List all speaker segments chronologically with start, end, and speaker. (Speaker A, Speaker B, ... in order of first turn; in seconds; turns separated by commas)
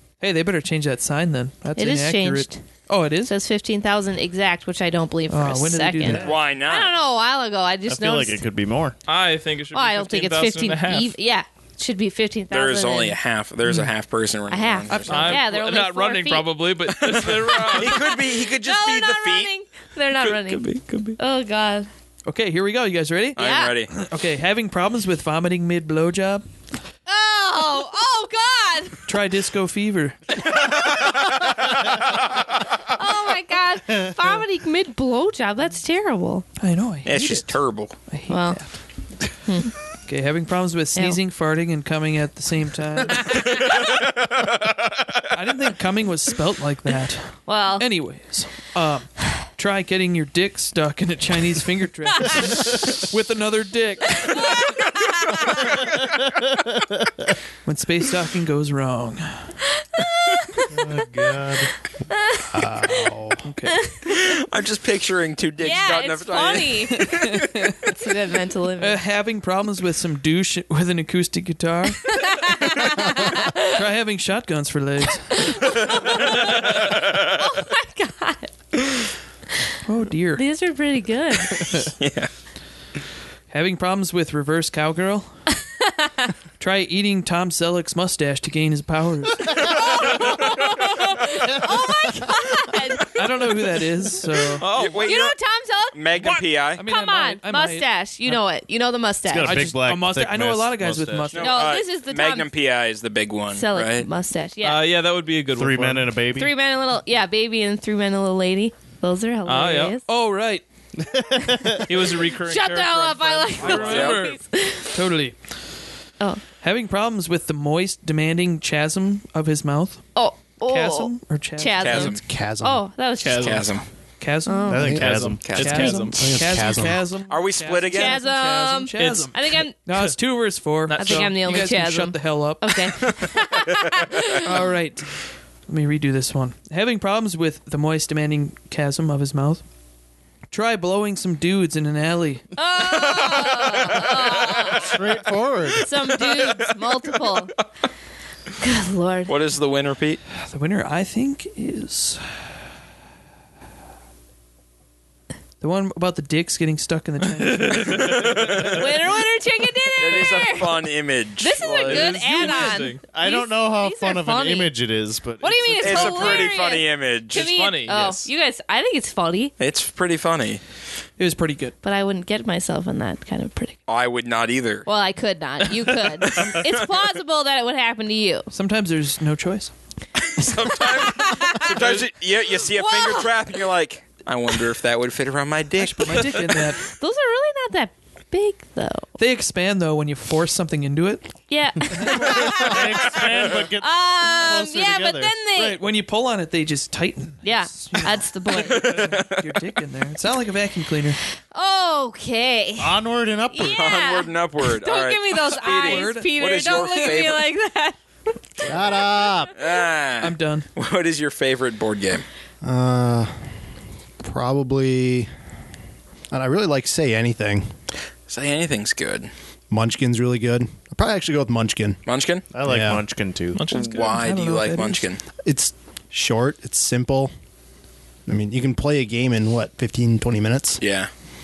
Speaker A: 0.2-3.4, Speaker B: 1.8-2.7, Speaker B: 3.3-8.4, Speaker A: 5.3-6.3, Speaker C: 6.1-6.9, Speaker D: 7.9-9.0, Speaker E: 9.1-11.1, Speaker B: 9.7-13.2, Speaker C: 12.5-15.4, Speaker B: 14.5-16.6, Speaker A: 14.9-15.4, Speaker E: 15.1-18.2, Speaker C: 17.0-19.5, Speaker B: 17.8-21.9, Speaker E: 20.2-21.2, Speaker A: 22.2-26.4, Speaker C: 23.4-23.9, Speaker B: 23.4-23.8, Speaker B: 27.1-29.1, Speaker A: 29.1-30.2, Speaker C: 30.4-32.5, Speaker B: 32.9-36.5, Speaker A: 36.6-38.8, Speaker C: 37.0-38.0, Speaker B: 38.3-38.6, Speaker B: 39.5-39.7, Speaker A: 40.0-43.6, Speaker B: 43.2-43.5, Speaker C: 43.8-44.5, Speaker A: 45.3-54.6, Speaker B: 47.4-47.9, Speaker B: 54.1-55.7, Speaker A: 57.6-59.5, Speaker B: 59.8-60.8, Speaker D: 60.7-61.7, Speaker B: 62.1-63.1, Speaker F: 62.5-63.4, Speaker A: 63.4-63.8, Speaker B: 63.7-64.1, Speaker C: 64.1-67.3, Speaker B: 65.6-67.1, Speaker A: 66.9-67.9, Speaker B: 67.9-69.0, Speaker A: 68.8-72.2, Speaker B: 72.1-73.8, Speaker A: 72.8-75.8, Speaker B: 75.3-78.5, Speaker C: 76.5-77.4, Speaker A: 79.8-80.5, Speaker B: 80.3-81.7, Speaker C: 81.9-82.3, Speaker A: 83.5-85.4, Speaker B: 85.8-86.3, Speaker A: 86.6-90.3, Speaker B: 89.6-93.5, Speaker A: 93.0-94.7, Speaker E: 94.6-95.2, Speaker C: 94.6-95.3, Speaker B: 95.0-96.0, Speaker C: 95.9-96.8, Speaker A: 96.2-98.4, Speaker B: 96.8-99.6, Speaker D: 99.3-101.4, Speaker A: 99.4-101.7, Speaker C: 101.3-104.1, Speaker B: 101.4-102.5, Speaker B: 103.5-104.8, Speaker E: 104.6-106.2, Speaker D: 105.5-106.5, Speaker B: 106.3-110.0, Speaker E: 109.5-110.0, Speaker A: 110.0-110.6, Speaker D: 111.1-111.8, Speaker E: 111.8-114.4, Speaker B: 112.4-114.9, Speaker A: 113.7-114.0, Speaker C: 113.7-114.2, Speaker A: 114.9-115.4, Speaker B: 116.2-116.5, Speaker A: 116.5-122.1, Speaker B: 120.1-123.7, Speaker C: 121.8-122.2, Speaker F: 122.0-122.8, Speaker E: 123.2-123.7, Speaker C: 123.3-123.8, Speaker A: 124.2-125.0, Speaker B: 124.4-124.9, Speaker D: 124.7-125.5, Speaker F: 124.7-125.1, Speaker E: 124.8-126.4, Speaker C: 125.4-126.0, Speaker A: 125.5-133.3, Speaker F: 126.2-127.0, Speaker C: 127.3-128.2, Speaker B: 127.9-129.8, Speaker E: 129.0-130.2, Speaker E: 130.8-131.3, Speaker B: 130.9-134.6, Speaker A: 134.4-139.6, Speaker A: 140.5-142.5, Speaker B: 142.6-144.9, Speaker C: 142.8-145.0, Speaker D: 144.8-145.9, Speaker B: 145.8-147.5, Speaker C: 146.1-147.4, Speaker B: 148.6-149.3, Speaker C: 149.2-150.2, Speaker A: 150.4-152.5, Speaker A: 155.6-158.2, Speaker E: 157.4-158.8, Speaker C: 158.1-158.8, Speaker B: 158.7-160.8, Speaker C: 160.0-162.2, Speaker B: 161.4-164.7, Speaker E: 161.8-163.0, Speaker D: 163.1-166.2, Speaker B: 165.4-169.5, Speaker C: 165.8-167.5, Speaker E: 167.3-168.3, Speaker C: 169.6-170.6, Speaker A: 171.2-171.8, Speaker B: 171.8-173.8, Speaker C: 173.9-174.9, Speaker B: 174.8-178.5, Speaker C: 176.3-176.8, Speaker A: 178.5-179.7, Speaker C: 180.2-186.5, Speaker B: 180.8-182.0, Speaker B: 182.6-183.4, Speaker A: 185.8-186.9, Speaker B: 186.8-189.1, Speaker A: 189.2-191.4, Speaker B: 191.5-195.8, Speaker A: 191.9-192.4, Speaker D: 192.1-195.3, Speaker A: 195.5-201.2, Speaker B: 197.4-198.9, Speaker C: 198.5-199.4, Speaker B: 201.5-208.0, Speaker D: 202.8-203.9, Speaker C: 203.7-207.4, Speaker A: 205.6-206.3, Speaker B: 208.6-209.4, Speaker F: 208.7-209.5, Speaker C: 209.5-212.2, Speaker A: 210.2-210.7, Speaker F: 212.6-213.3, Speaker F: 214.2-215.3, Speaker F: 216.3-217.7, Speaker C: 218.3-219.3, Speaker F: 219.7-222.0, Speaker C: 222.1-222.4, Speaker D: 222.5-223.6, Speaker F: 222.6-223.0, Speaker E: 223.5-224.2, Speaker C: 223.7-225.2, Speaker A: 224.0-225.1, Speaker F: 225.4-227.3, Speaker F: 228.3-230.8, Speaker C: 230.8-231.1